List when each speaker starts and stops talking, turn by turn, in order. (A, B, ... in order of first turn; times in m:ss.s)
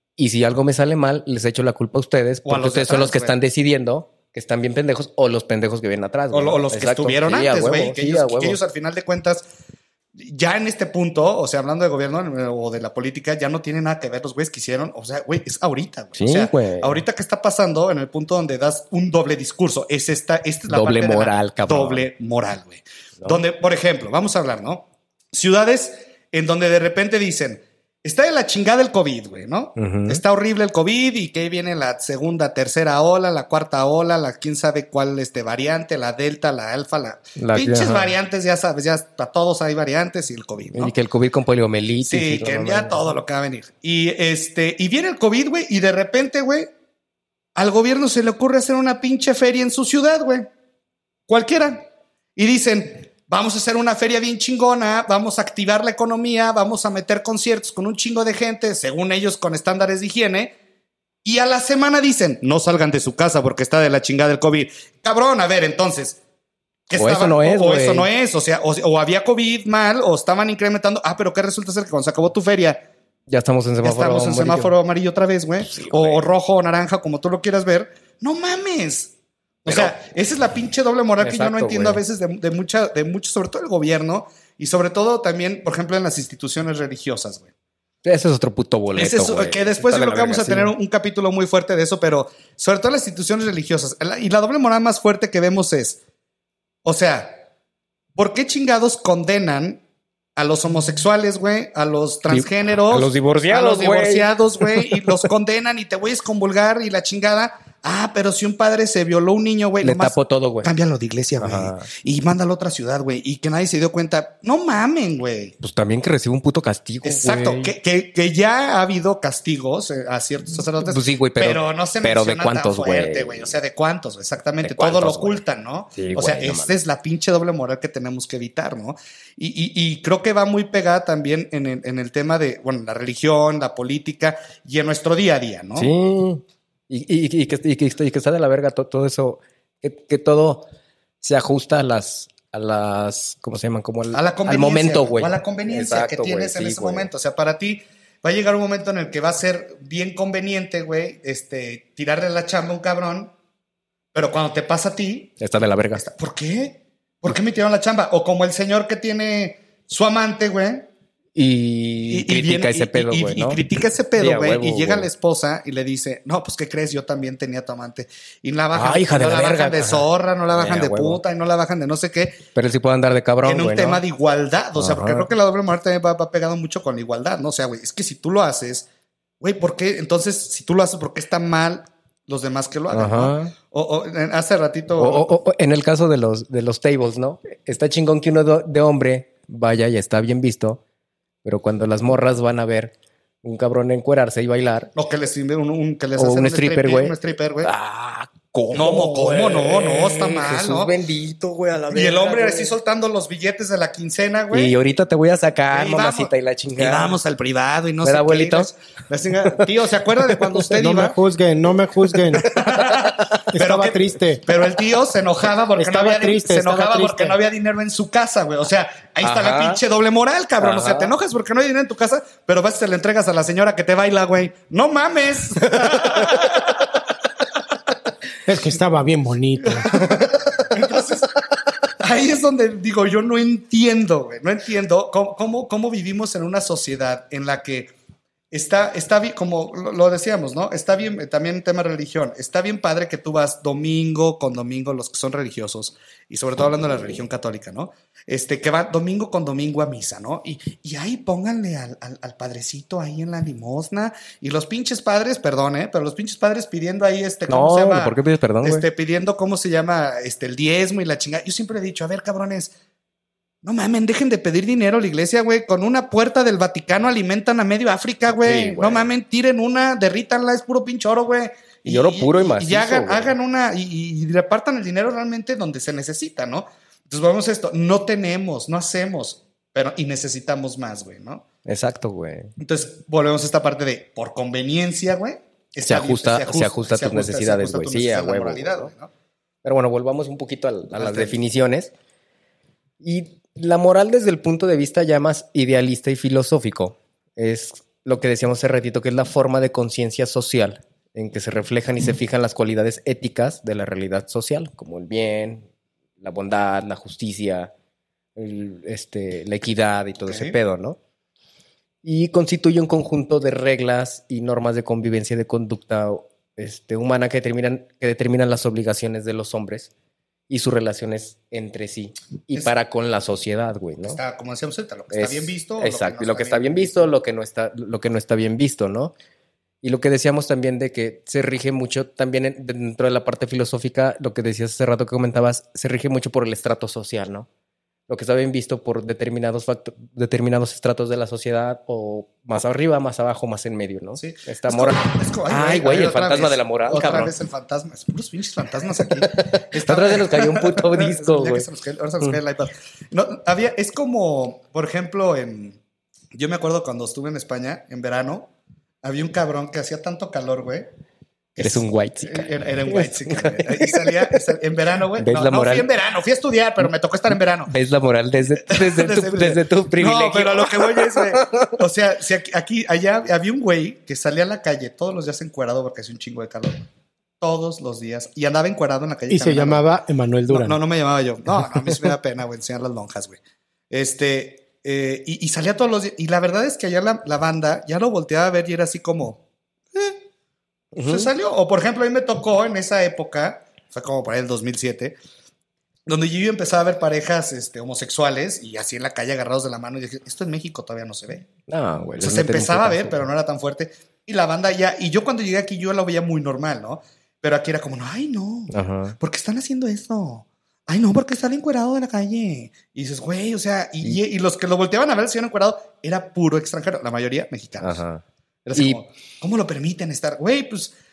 0:00.2-0:08.6 A
0:02.4-0:03.3 B
0:06.3-0:09.4 B
0:10.2-0:40.9 B
0:16.2-0:17.0 A
0:20.7-0:22.1 A
0:29.8-0:30.2 A
0:37.4-0:38.1 A
0:40.7-0:43.1 A
0:42.0-0:46.7 B
0:47.6-0:50.5 B
0:51.3-1:00.5 B
1:01.2-1:06.2 B
1:06.9-1:12.8 B
1:06.9-1:08.1 A
1:13.3-1:14.7 A
1:13.8-1:19.1 B
1:15.6-1:16.2 A
1:19.6-1:27.5 B
1:19.6-1:19.9 A
1:21.2-1:22.0 A
1:28.0-1:30.7 A
1:28.9-1:36.0 B
1:36.8-1:37.4 B
1:38.2-1:39.8 B
1:40.4-1:55.5 B
1:42.3-1:45.2 A
1:49.8-1:50.7 A
1:51.4-1:51.9 A
1:55.6-1:57.7 A
1:57.0-2:15.9 B
2:00.8-2:03.6 A
2:04.6-2:05.4 A
2:05.9-2:06.8 A
2:15.8-2:20.6 A
2:21.2-2:27.1 A
2:24.1-2:33.3 B
2:34.1-2:35.3 B
2:35.4-2:36.0 A
2:36.0-2:40.9 B
2:41.3-2:43.6 A
2:42.1-2:52.4 B
2:44.2-2:45.1 A
2:48.7-2:51.2 A
2:52.5-2:54.0 A
2:53.4-2:58.8 B
2:54.8-2:55.3 A
2:59.4-3:05.3 B
3:02.9-3:03.5 A
3:05.0-3:10.8 A
3:11.4-3:14.9 A
3:14.9-3:17.7 B
3:16.2-3:22.7 A
3:18.7-3:20.9 B
3:21.9-3:24.7 B
3:24.5-3:27.2 A
3:25.7-3:31.2 B
3:28.0-3:28.7 A
3:30.7-3:32.6 C
3:32.3-3:46.9 B
3:32.4-3:33.4 A
3:33.4-3:34.4 C
3:35.8-3:37.4 C
3:39.2-3:39.8 A
3:40.6-3:41.1 A
3:48.4-3:50.3 C
3:49.9-3:51.3 B
3:52.0-3:57.9 B
3:58.5-4:22.7 B
4:17.5-4:18.8 A
4:23.6-4:41.4 B
4:28.4-4:29.1 A
4:31.8-4:33.3 A
4:41.6-4:42.5 A
4:42.6-4:49.1 B
4:45.8-4:48.9 A
4:49.6-4:51.9 A
4:51.0-4:51.4 B
4:53.0-5:05.6 A
5:06.2-5:07.7 A
5:08.4-5:11.0 A
5:10.2-5:10.6 B
5:12.0-5:19.9 A
5:20.5-5:24.2 A
5:24.0-5:27.1 B
5:25.1-5:29.1 A
5:29.8-5:37.5 A
5:38.1-5:47.3 A
5:44.2-5:55.8 B
5:49.0-5:51.7 A
5:56.3-5:58.5 B
5:59.0-6:00.9 B
6:01.6-6:07.7 B
6:01.6-6:04.4 A
6:05.2-6:05.9 A
6:07.7-6:11.8 A
6:08.6-6:16.9 B
6:17.4-6:19.8 B
6:19.3-6:20.8 C
6:20.5-6:23.4 B
6:23.9-6:29.4 B
6:29.9-6:30.2 B
6:30.9-6:31.3 A
6:31.0-6:35.2 B
6:36.1-6:41.5 B
6:41.7-6:43.2 A
6:42.2-6:58.0 B
6:48.7-6:49.2 A
6:57.8-6:58.2 A
6:58.6-7:00.9 B